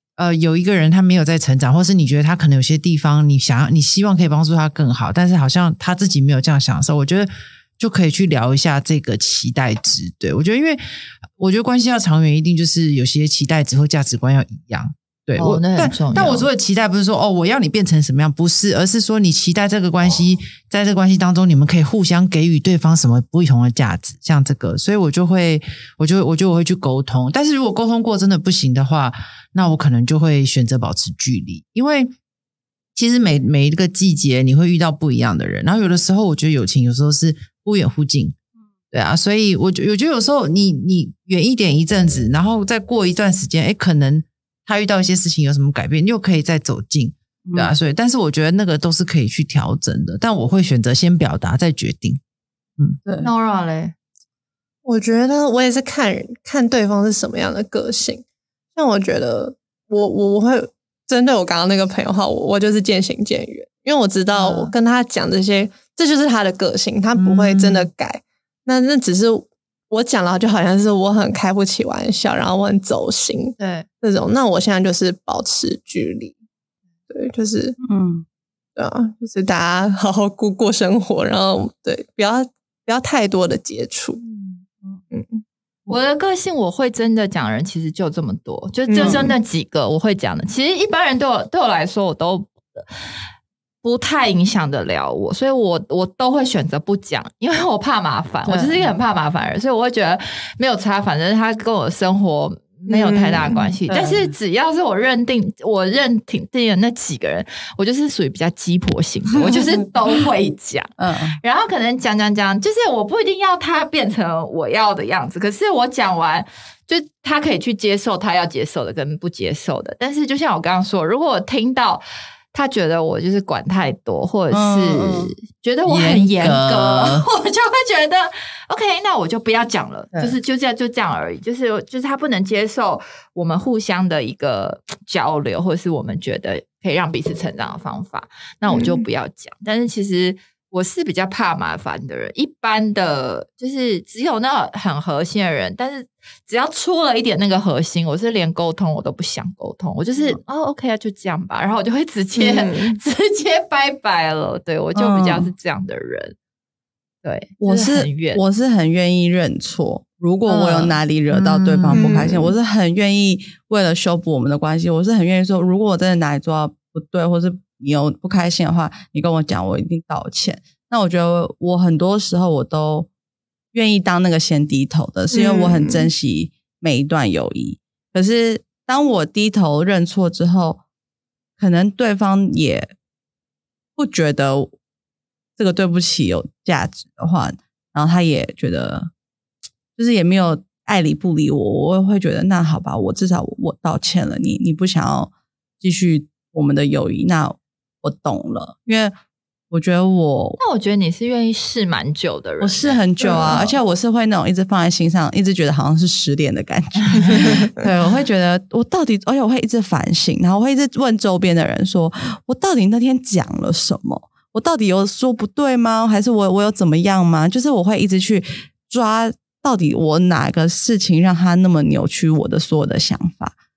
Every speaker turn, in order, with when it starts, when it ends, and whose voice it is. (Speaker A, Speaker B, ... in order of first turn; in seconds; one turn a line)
Speaker A: 0.2-10.8
Speaker A: 11.4-32.1
Speaker B: 15.4-16.5
Speaker A: 33.0-38.4
Speaker A: 38.9-52.2
Speaker C: 53.0-53.3
Speaker B: 53.2-53.9
Speaker D: 54.9-58.2
Speaker D: 58.8-76.4
Speaker B: 64.3-64.7
Speaker A: 67.2-67.9
Speaker B: 73.6-73.9
Speaker D: 77.1-77.8
Speaker C: 77.8-78.2
Speaker D: 78.8-84.2
Speaker B: 84.2-84.6
Speaker D: 85.1-85.4
Speaker B: 85.9-93.2
Speaker D: 88.9-89.3
Speaker C: 89.0-89.3
Speaker B: 93.8-156.4
Speaker C: 98.5-98.9
Speaker D: 102.9-103.7
Speaker C: 103.9-104.3
Speaker C: 111.0-111.4
Speaker C: 124.5-125.3
Speaker A: 125.9-127.2
Speaker D: 138.7-139.0
Speaker D: 152.3-153.0
Speaker C: 154.9-155.5
Speaker B: 157.2-158.4
Speaker C: 157.6-173.1
Speaker B: 160.5-160.9
Speaker A: 161.3-162.2
Speaker D: 162.0-162.5
Speaker C: 173.7-180.8
Speaker D: 175.3-176.1
Speaker C: 181.6-182.9
Speaker C: 184.0-184.7
Speaker C: 185.6-189.1
Speaker C: 190.0-199.2
Speaker C: 199.7-200.6
Speaker B: 200.6-203.7
Speaker C: 202.6-223.6
Speaker B: 207.0-207.4